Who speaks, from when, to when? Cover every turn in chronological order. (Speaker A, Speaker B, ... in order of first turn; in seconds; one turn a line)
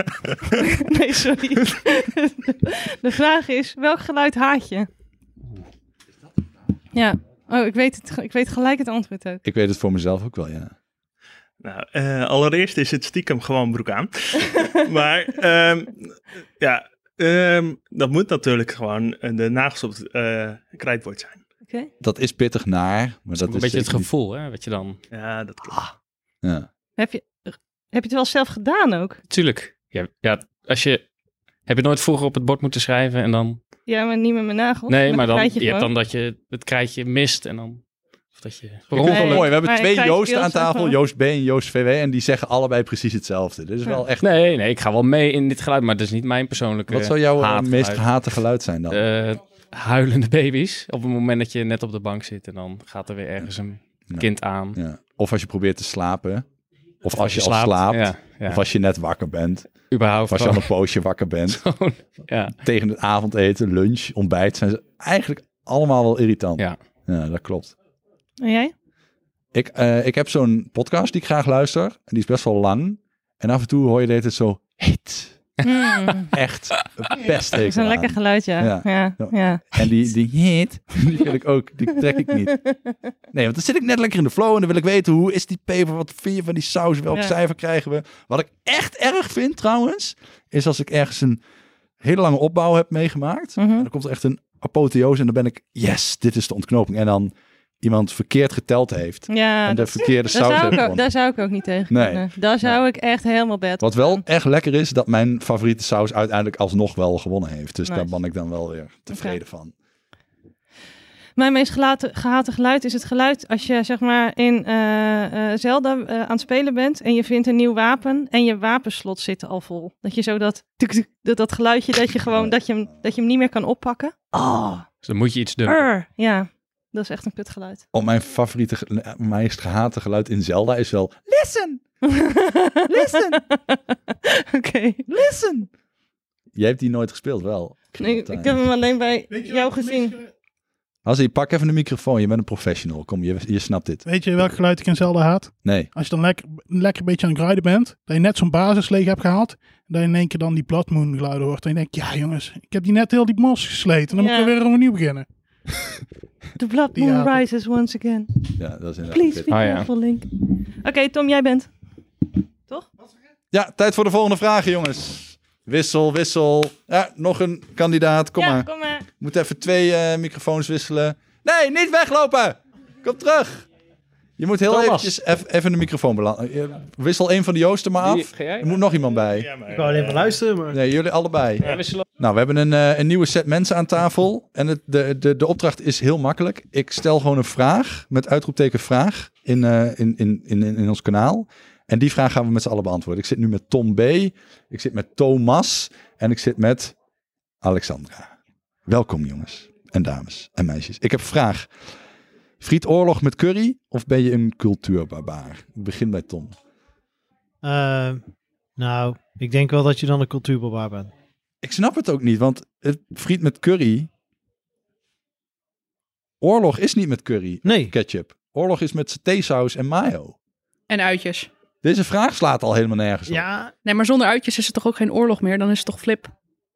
Speaker A: 0.6-4.9
Speaker A: 6.9-9.4
Speaker B: 9.4-10.7
Speaker C: 11.6-21.4
Speaker B: 22.0-24.1
Speaker D: 23.4-25.0
Speaker C: 25.1-25.9
Speaker A: 27.0-29.2
Speaker D: 29.3-31.0
Speaker D: 31.7-33.6
Speaker A: 33.9-35.9
Speaker D: 34.9-37.8
Speaker D: 38.4-39.5
Speaker B: 38.9-44.3
Speaker A: 39.0-41.0
Speaker D: 44.2-48.2
Speaker B: 46.9-49.0
Speaker D: 48.9-54.8
Speaker B: 54.1-56.5
Speaker B: 57.0-59.7
Speaker D: 57.2-58.6
Speaker D: 59.9-60.7
Speaker B: 60.2-61.6
Speaker D: 61.5-62.6
Speaker B: 62.6-67.8
Speaker A: 68.4-68.7
Speaker B: 69.5-75.4
Speaker A: 75.6-76.3
Speaker B: 76.3-82.5
Speaker A: 77.5-79.8
Speaker A: 82.7-82.9
Speaker B: 83.3-91.4
Speaker B: 92.0-101.1
Speaker A: 93.6-93.9
Speaker A: 99.3-104.2
Speaker B: 101.9-102.8
Speaker B: 103.8-109.7
Speaker A: 107.9-108.1
Speaker A: 109.1-109.4
Speaker A: 111.4-124.8
Speaker B: 122.2-122.6
Speaker D: 125.0-125.8
Speaker A: 125.7-127.8
Speaker B: 127.9-131.8
Speaker A: 132.0-135.1
Speaker B: 132.9-133.4
Speaker B: 135.1-135.7
Speaker B: 136.5-138.6
Speaker A: 138.0-140.2
Speaker E: 139.3-140.2
Speaker B: 141.1-144.1
Speaker E: 144.1-155.3
Speaker B: 145.6-145.9
Speaker A: 154.2-154.5
Speaker A: 156.6-158.4
Speaker E: 156.9-157.4
Speaker B: 158.6-159.5
Speaker A: 159.1-160.3
Speaker D: 159.5-159.9
Speaker A: 160.8-161.7
Speaker B: 163.5-173.7
Speaker A: 168.4-169.1
Speaker B: 174.4-179.5
Speaker D: 178.0-178.7
Speaker C: 179.3-180.2
Speaker F: 179.7-180.8
Speaker B: 180.7-196.9
Speaker B: 197.6-198.3
Speaker B: 198.9-201.7
Speaker B: 202.6-206.6
Speaker F: 207.6-208.2
Speaker F: 208.8-211.1
Speaker B: 211.6-214.1
Speaker B: 216.4-220.4
Speaker F: 217.6-217.9
Speaker G: 220.9-221.5
Speaker B: 221.8-223.5
Speaker F: 223.3-223.7
Speaker G: 223.8-226.3